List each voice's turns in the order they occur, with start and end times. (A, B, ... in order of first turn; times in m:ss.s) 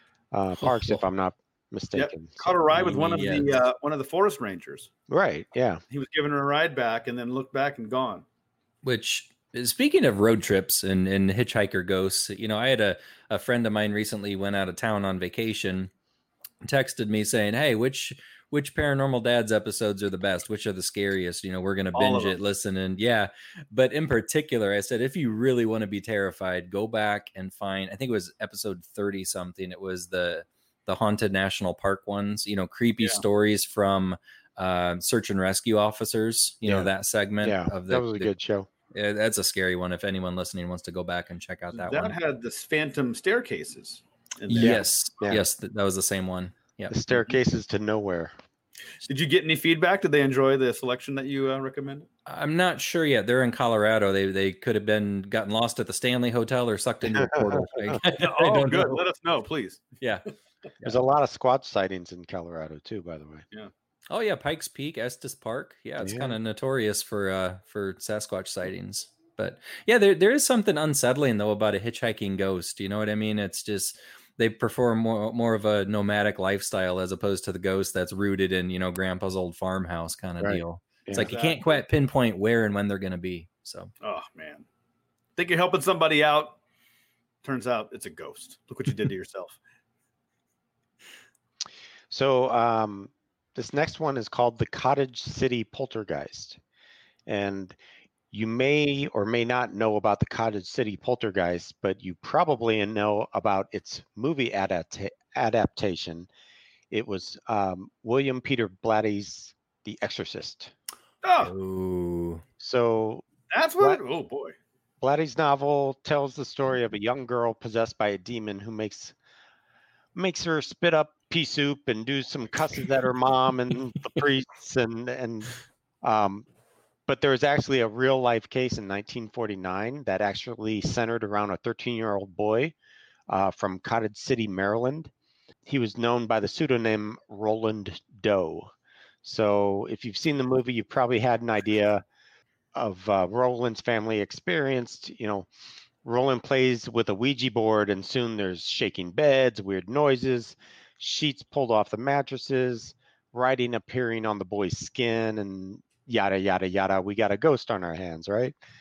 0:00.3-0:02.6 A
0:00.6-0:01.0 B
0:01.9-0:04.9 C
0:02.7-0:03.6 B
0:05.1-0:05.8 A
0:05.9-0:08.2 C
0:08.8-0:15.9 B
0:16.6-0:38.3 B
0:22.0-0:22.4 C
0:37.4-0:38.7 A
0:38.9-0:42.2 B
0:41.7-0:44.8 C
0:44.5-0:47.2 B
0:44.6-0:45.4 A
0:46.9-0:48.3 A
0:49.1-0:52.1 C
0:52.3-0:59.0 B
0:57.1-0:58.0 A
0:58.1-0:59.9 C
1:00.8-1:03.4 A
1:04.1-1:23.9 B
1:06.0-1:06.4 A
1:20.4-1:21.3 A
1:21.2-1:21.8 C
1:24.0-1:24.7 C
1:25.4-1:26.6 C
1:27.4-1:29.6 C
1:32.1-1:36.6 A
1:37.3-1:37.8 A
1:38.3-1:46.3 A
1:46.9-1:50.7 A
1:51.2-1:51.5 C
1:51.4-1:52.4 B
1:52.6-1:53.2 A
1:53.5-1:54.6 C
1:55.0-1:59.2 A
2:00.2-2:06.5 A
2:07.1-2:12.8 A
2:13.3-2:15.1 A
2:15.7-2:18.7 A
2:19.2-2:22.0 A
2:22.8-2:25.5 A
2:26.0-2:38.6 A